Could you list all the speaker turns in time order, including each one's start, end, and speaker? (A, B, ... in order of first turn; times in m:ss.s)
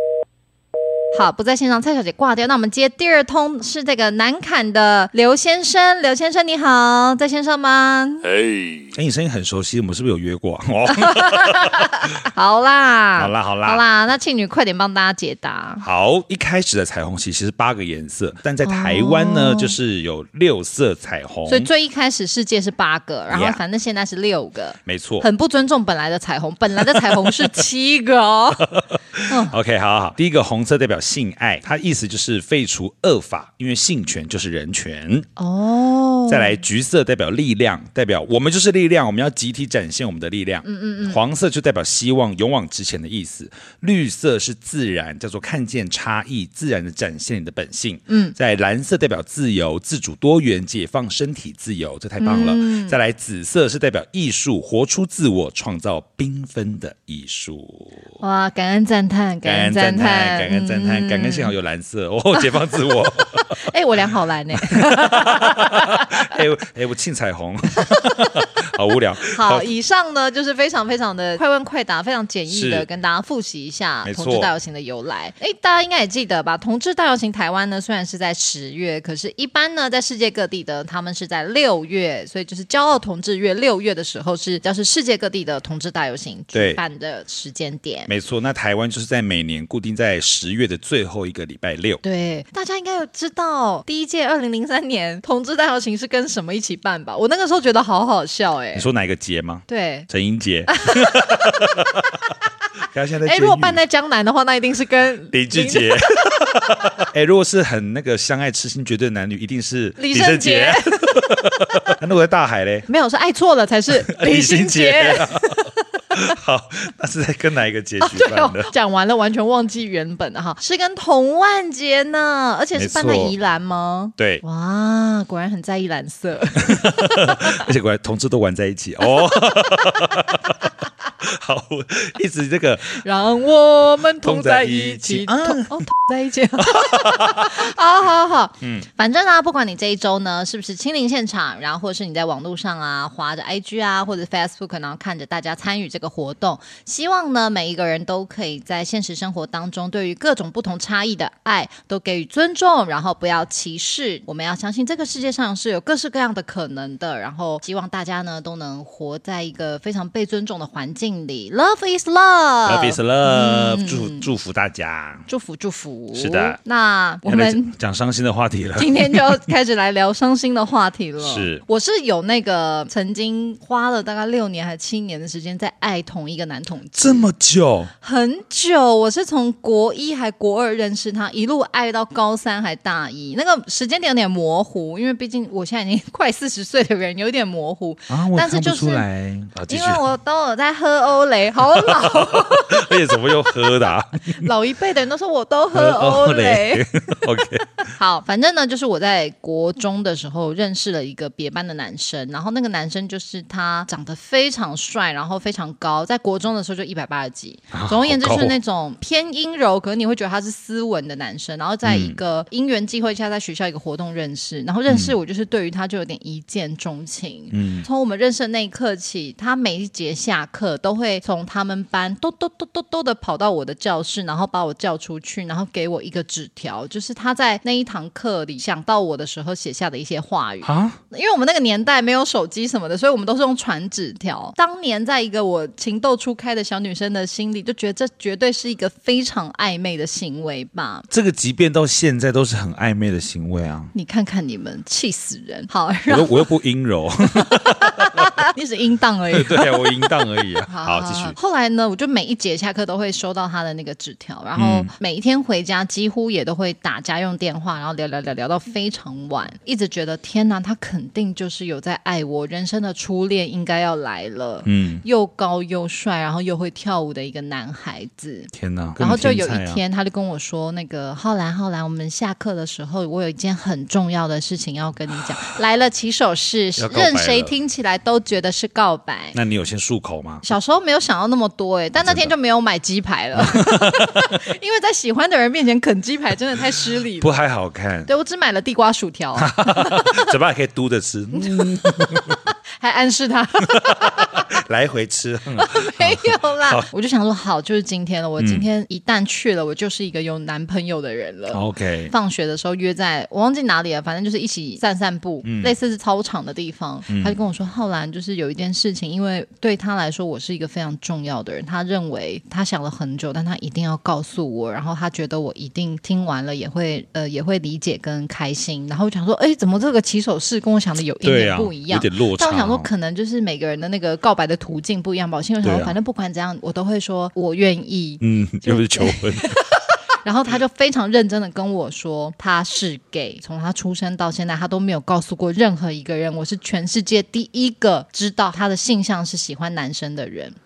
0:01.1-0:08.3 A
0:08.9-0:11.9 B
0:10.9-0:15.8 A
0:13.2-0:13.8 B
0:15.8-0:21.7 B
0:18.6-0:19.8 A
0:21.5-0:28.7 A
0:23.3-0:23.6 B
0:24.8-0:25.3 B
0:26.9-0:27.5 B
0:28.6-0:35.3 B
0:29.3-0:29.5 A
0:35.4-0:36.6 A
0:36.3-0:58.0 B
0:40.6-0:41.2 A
0:48.1-0:48.4 A
0:52.2-0:53.0 A
0:58.2-1:01.5 A
0:59.4-1:03.6 B
1:03.2-1:06.3 A
1:04.6-1:09.7 B
1:07.9-1:08.2 A
1:09.2-1:28.1 A
1:12.5-1:12.8 B
1:14.0-1:14.5 B
1:26.5-1:26.8 B
1:28.1-1:32.0 B
1:32.0-1:38.9 A
1:38.7-1:42.2 B
1:39.7-1:40.1 A
1:40.7-1:41.8 A
1:42.8-1:43.8 B
1:43.2-1:46.0 A
1:45.3-1:52.9 B
1:50.0-1:51.9 A
1:52.9-1:56.3 A
1:54.1-1:58.7 B
1:58.0-2:07.7 A
2:02.7-2:03.3 B
2:04.2-2:04.4 B
2:06.7-2:10.7 B
2:09.1-2:10.3 A
2:11.2-2:13.0 B
2:12.9-2:44.3 A
2:14.2-2:15.8 B
2:16.6-2:17.7 B
2:42.6-2:45.2 B
2:45.3-2:47.7 A
2:46.2-2:46.6 B
2:47.2-2:49.4 B
2:48.8-2:57.3 A
2:51.2-2:51.6 B
2:57.0-2:57.9 B
2:58.0-3:09.0 A
3:08.1-3:10.0 B
3:09.7-3:13.7 A
3:11.8-3:14.5 B
3:14.3-4:01.1 A
3:15.7-3:17.9 B
3:27.7-3:28.6 B
3:31.8-3:32.2 B
3:37.5-3:37.9 B
3:50.6-3:51.0 B
4:01.1-4:03.9 B
4:03.9-4:06.5 A
4:06.1-4:08.3 B
4:07.3-4:39.4 A
4:09.3-4:11.3 B
4:14.6-4:14.9 B
4:24.6-4:25.0 B
4:28.5-4:29.8 B
4:36.8-4:37.5 B
4:39.3-4:40.4 B
4:40.4-4:47.4 A
4:42.0-4:42.3 B
4:43.4-4:44.4 B
4:47.2-4:48.1 B
4:48.0-4:50.3 A
4:49.4-4:52.4 B
4:51.4-4:54.5 A
4:53.7-4:56.9 B
4:55.6-5:29.7 A
4:58.4-4:58.6 B
5:01.5-5:02.1 B
5:05.4-5:05.7 B
5:07.1-5:07.4 B
5:21.2-5:22.9 B
5:25.6-5:25.9 B
5:28.2-5:29.6 B
5:30.2-5:40.6 A